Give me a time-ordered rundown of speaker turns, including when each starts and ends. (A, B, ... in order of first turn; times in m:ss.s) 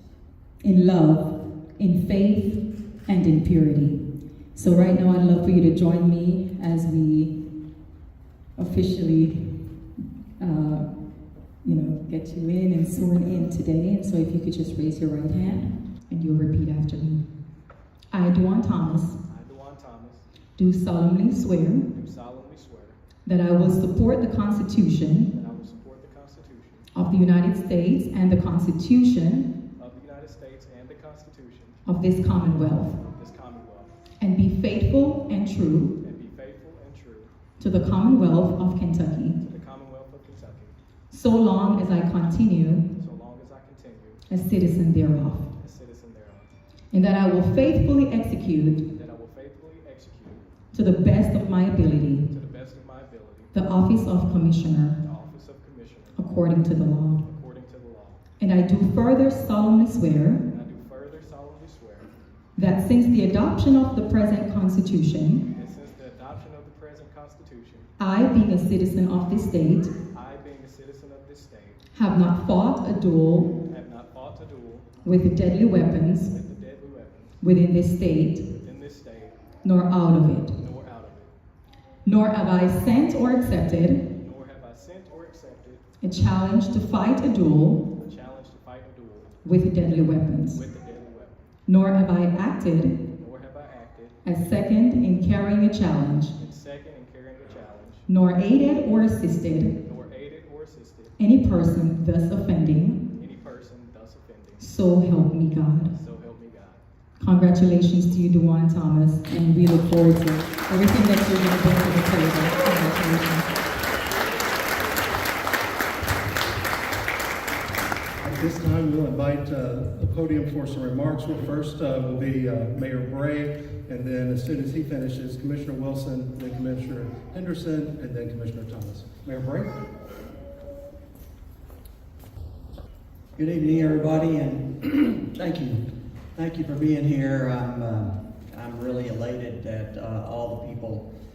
0:00.6-0:04.0 A
0:04.5-0:07.3 A
0:08.6-0:09.6 A
0:10.4-0:10.9 A
0:11.6-0:17.2 A
0:18.1-0:19.2 A
0:19.3-0:20.2 B
0:20.6-0:21.8 A
0:21.9-0:23.0 B
0:23.2-0:25.3 A
0:25.3-0:26.9 B
0:26.9-0:29.5 A
0:29.8-0:31.8 B
0:31.8-0:33.0 A
0:32.7-0:33.9 B
0:34.2-0:35.9 A
0:36.0-0:37.3 B
0:37.6-0:39.4 A
0:39.4-0:40.8 B
0:41.1-0:42.8 A
0:42.9-0:44.2 B
0:44.3-0:45.5 A
0:45.6-0:46.5 B
0:46.9-0:48.8 A
0:48.9-0:50.4 B
0:50.7-0:52.2 A
0:52.0-0:53.5 B
0:53.5-0:55.0 A
0:55.0-0:56.2 B
0:56.2-0:57.2 A
0:57.2-0:58.2 B
0:58.4-1:00.4 A
1:00.4-1:02.1 B
1:02.6-1:05.4 A
1:05.5-1:07.9 B
1:08.0-1:09.9 A
1:10.1-1:11.8 B
1:11.9-1:13.5 A
1:13.6-1:15.0 B
1:15.0-1:16.3 A
1:16.3-1:17.4 B
1:17.4-1:18.4 A
1:18.5-1:19.4 B
1:19.6-1:20.6 A
1:20.6-1:21.3 B
1:22.0-1:24.0 A
1:24.1-1:25.8 B
1:26.0-1:27.8 A
1:28.0-1:29.4 B
1:29.4-1:30.6 A
1:30.5-1:31.4 B
1:31.6-1:33.0 A
1:33.1-1:34.2 B
1:34.2-1:36.3 A
1:36.4-1:38.1 B
1:38.1-1:39.7 A
1:39.8-1:41.1 B
1:41.2-1:43.0 A
1:43.1-1:44.7 B
1:44.6-1:45.9 A
1:45.8-1:46.8 B
1:47.2-1:53.5 A
1:58.2-2:09.7 C
2:13.4-2:15.8 D
2:16.4-2:21.0 D